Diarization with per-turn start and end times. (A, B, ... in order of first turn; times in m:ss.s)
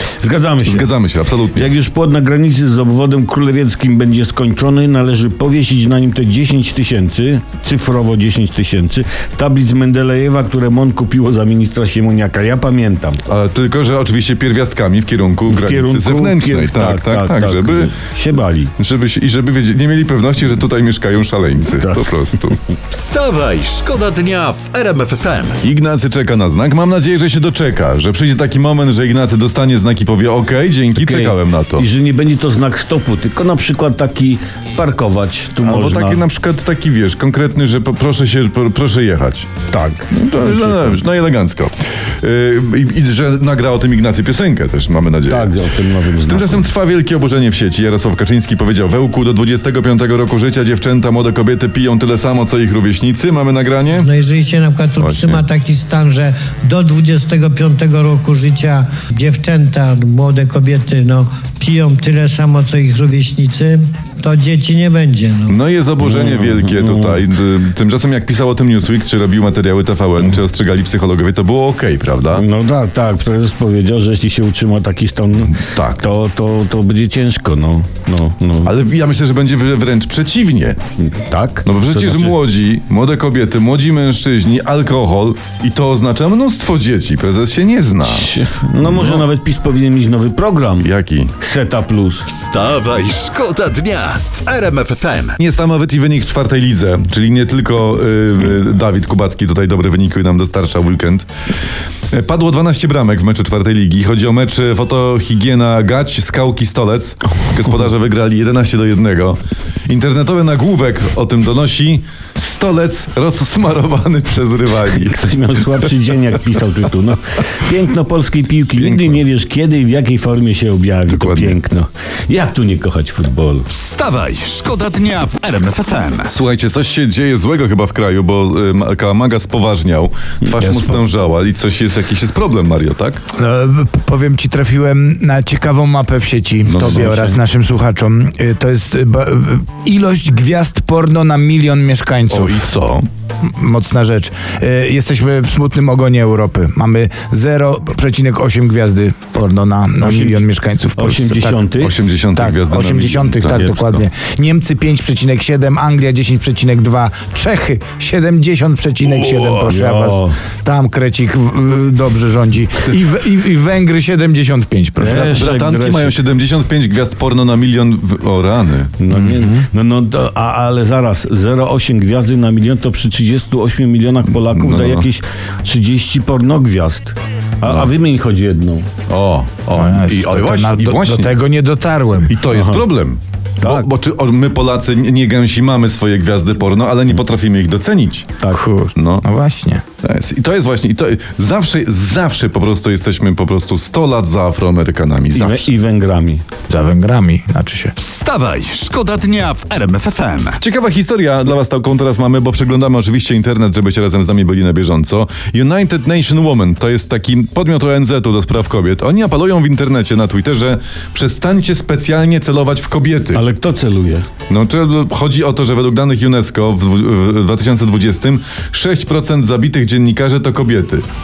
0:00.2-0:01.0 A
0:00.6-0:01.7 B
0:01.6-0:13.2 A
0:13.3-0:17.9 B
0:15.5-0:18.7 A
0:18.8-0:22.6 B
0:21.7-0:22.5 A
0:22.9-0:25.6 C
0:25.6-0:31.9 B
0:31.0-0:36.2 A
0:35.6-0:39.6 B
0:39.7-0:41.0 A
0:40.1-0:45.5 B
0:45.3-0:46.7 A
0:46.2-0:54.1 B
0:53.9-1:05.5 D
0:55.0-0:55.4 B
1:05.5-1:12.5 B
1:06.0-1:07.2 A
1:12.3-1:18.7 A
1:15.5-1:16.1 B
1:18.6-1:20.8 B
1:21.0-1:22.3 A
1:21.6-1:28.3 B
1:28.0-1:30.9 A
1:28.8-1:29.3 B
1:30.8-1:31.3 B
1:31.4-1:32.2 A
1:32.3-1:35.4 C
1:35.4-1:41.3 B
1:42.1-1:55.2 B
1:55.0-2:03.7 A
1:58.8-1:59.2 B
2:01.1-2:01.6 B
2:03.7-2:06.3 C
2:06.3-2:13.2 B
2:10.6-2:11.0 E
2:13.4-2:22.6 E
2:16.7-2:17.1 B
2:16.8-2:17.4 A
2:22.3-2:23.1 B
2:23.6-2:31.8 E
2:30.0-2:30.4 A
2:31.0-2:31.9 A
2:31.8-2:34.0 B
2:32.3-2:45.4 E
2:39.0-2:40.4 A
2:45.0-2:46.2 A
2:45.1-2:49.0 B
2:49.0-2:58.9 A
2:49.1-2:49.6 E
2:54.4-2:55.1 B
2:59.1-3:01.4 B
2:59.7-3:02.4 E
3:02.3-3:08.4 B
3:02.5-3:02.8 A
3:03.6-3:03.9 A
3:08.5-3:09.8 E
3:09.0-3:09.2 B
3:10.0-3:15.7 B
3:15.3-3:16.4 A
3:16.7-3:17.9 E
3:18.0-3:20.6 C
3:20.6-3:33.4 B
3:33.3-3:34.2 A
3:34.5-3:41.1 B